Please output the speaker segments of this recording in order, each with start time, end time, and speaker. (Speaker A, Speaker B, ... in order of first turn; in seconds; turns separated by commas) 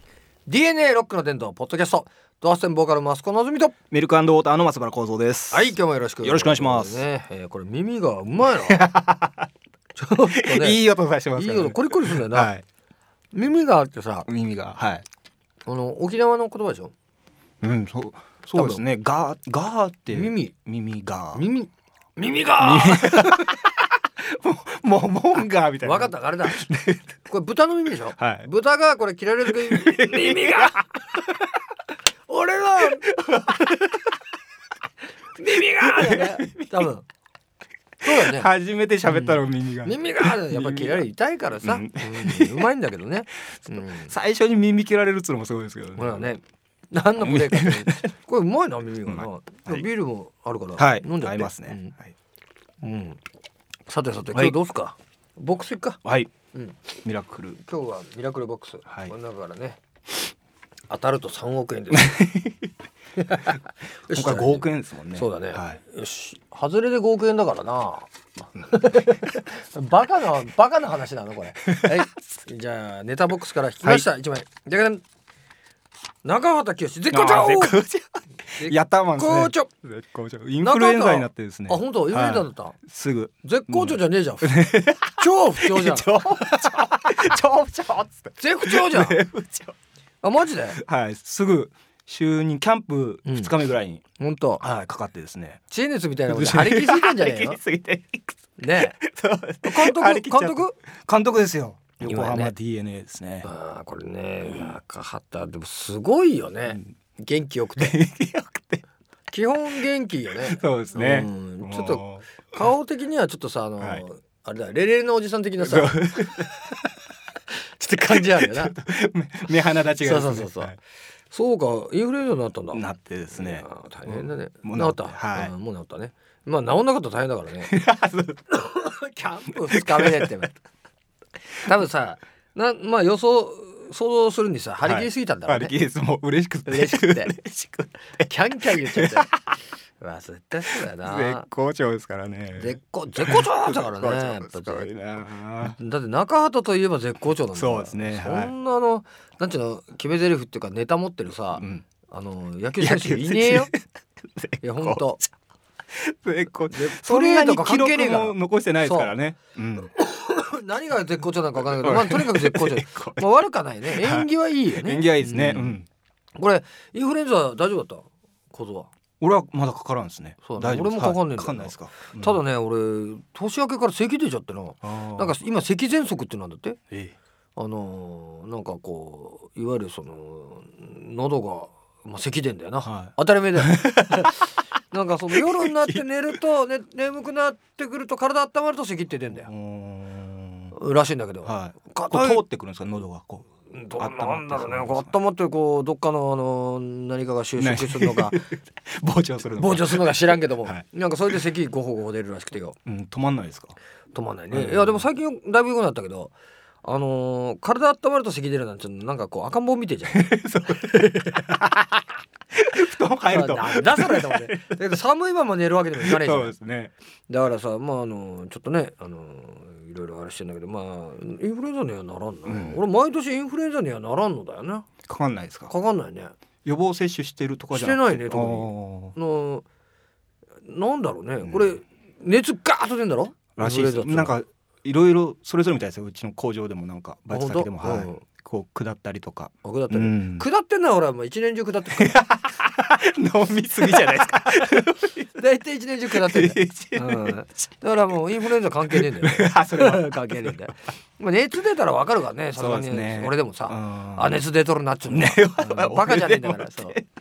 Speaker A: 0.5-3.8, Speaker B: 3.9-7.0, Speaker A: 5.5-8.8, Speaker B: 8.4-9.5, Speaker A: 9.9-10.8, Speaker B: 10.3-12.6, Speaker A: 11.3-12.5, Speaker A: 13.3-14.3, Speaker B: 14.3-15.0, Speaker A: 15.7-16.9, Speaker B: 17.6-21.4, Speaker A: 18.5-18.8, Speaker A: 20.1-20.5, Speaker A: 21.3-23.5, Speaker B: 22.6-27.1, Speaker A: 25.8-26.6, Speaker A: 27.3-30.9, Speaker B: 28.2-28.5, Speaker B: 29.4-30.8, Speaker A: 32.3-33.0, Speaker B: 33.0-34.0, Speaker A: 35.4-37.0, Speaker B: 35.8-36.8, Speaker B: 38.0-41.1, Speaker A: 38.0-38.5, Speaker A: 39.1-44.1, Speaker B: 41.6-42.7, Speaker B: 43.7-46.3, Speaker A: 46.0-51.9, Speaker B: 47.2-48.1, Speaker B: 49.0-49.9, Speaker B: 50.8-52.1, Speaker A: 52.8-53.2, Speaker A: 53.9-56.0, Speaker B: 56.0-56.3, Speaker A: 56.5-56.8, Speaker B: 57.0-57.6, Speaker A: 57.5-59.8, Speaker A: 60.9-62.3, Speaker B: 61.9-62.7, Speaker A: 63.2-75.0, Speaker B: 64.1-65.8, Speaker B: 71.6-72.1, Speaker A: 76.2-77.8, Speaker B: 77.1-89.7, Speaker A: 78.6-79.7, Speaker A: 80.6-82.8, Speaker A: 83.4-86.5, Speaker A: 88.4-89.2, Speaker A: 90.2-90.8, Speaker B: 90.7-94.0, Speaker A: 93.2-93.5, Speaker A: 94.2-94.6, Speaker B: 94.6-95.6, Speaker A: 95.7-97.6, Speaker B: 96.3-103.5, Speaker A: 98.6-99.0, Speaker A: 99.6-100.8, Speaker A: 102.0-102.5, Speaker A: 103.4-108.0, Speaker B: 104.5-104.7, Speaker B: 107.8-108.8, Speaker A: 109.3-116.8, Speaker B: 110.4-112.5, Speaker B: 115.6-116.8, Speaker A: 117.6-118.7, Speaker B: 118.1-120.8, Speaker A: 119.9-120.7, Speaker A: 121.3-127.7, Speaker B: 122.7-125.5, Speaker B: 127.6-128.6, Speaker A: 128.5-130.6, Speaker B: 129.7-130.3, Speaker A: 131.6-135.7, Speaker B: 134.8-139.4, Speaker A: 136.7-137.3, Speaker A: 138.2-139.3, Speaker A: 140.0-141.5, Speaker B: 140.7-145.8, Speaker A: 142.6-144.9, Speaker A: 145.6-153.7, Speaker B: 147.5-148.5, Speaker B: 151.5-151.8, Speaker B: 152.8-155.2, Speaker A: 154.6-155.2, Speaker B: 155.9-159.9, Speaker A: 156.7-159.1, Speaker A: 159.9-165.8, Speaker B: 161.6-163.3, Speaker B: 163.8-165.9, Speaker A: 166.4-168.9, Speaker B: 169.2-172.4, Speaker A: 170.4-176.8, Speaker B: 174.8-175.4, Speaker A: 177.6-189.5, Speaker B: 182.8-184.5, Speaker B: 185.3-186.0, Speaker B: 189.4-190.7, Speaker A: 190.7-192.4, Speaker B: 191.4-195.1, Speaker A: 193.7-198.4, Speaker B: 197.6-200.8, Speaker A: 199.6-202.8, Speaker B: 202.8-203.8, Speaker A: 204.1-211.7, Speaker B: 204.5-205.0, Speaker B: 210.1-211.9, Speaker B: 212.5-214.8, Speaker A: 213.3-216.5, Speaker B: 216.0-216.9, Speaker A: 217.3-224.9, Speaker B: 222.5-222.8, Speaker B: 225.1-225.7, Speaker A: 225.7-226.3, Speaker B: 226.6-229.1, Speaker A: 227.7-229.7, Speaker A: 230.7-234.3, Speaker B: 233.6-240.4, Speaker A: 237.3-238.2, Speaker A: 239.6-242.2, Speaker B: 241.9-245.3, Speaker A: 245.2-257.0, Speaker B: 246.1-247.4, Speaker B: 248.9-250.6, Speaker B: 252.5-254.4, Speaker B: 255.1-257.0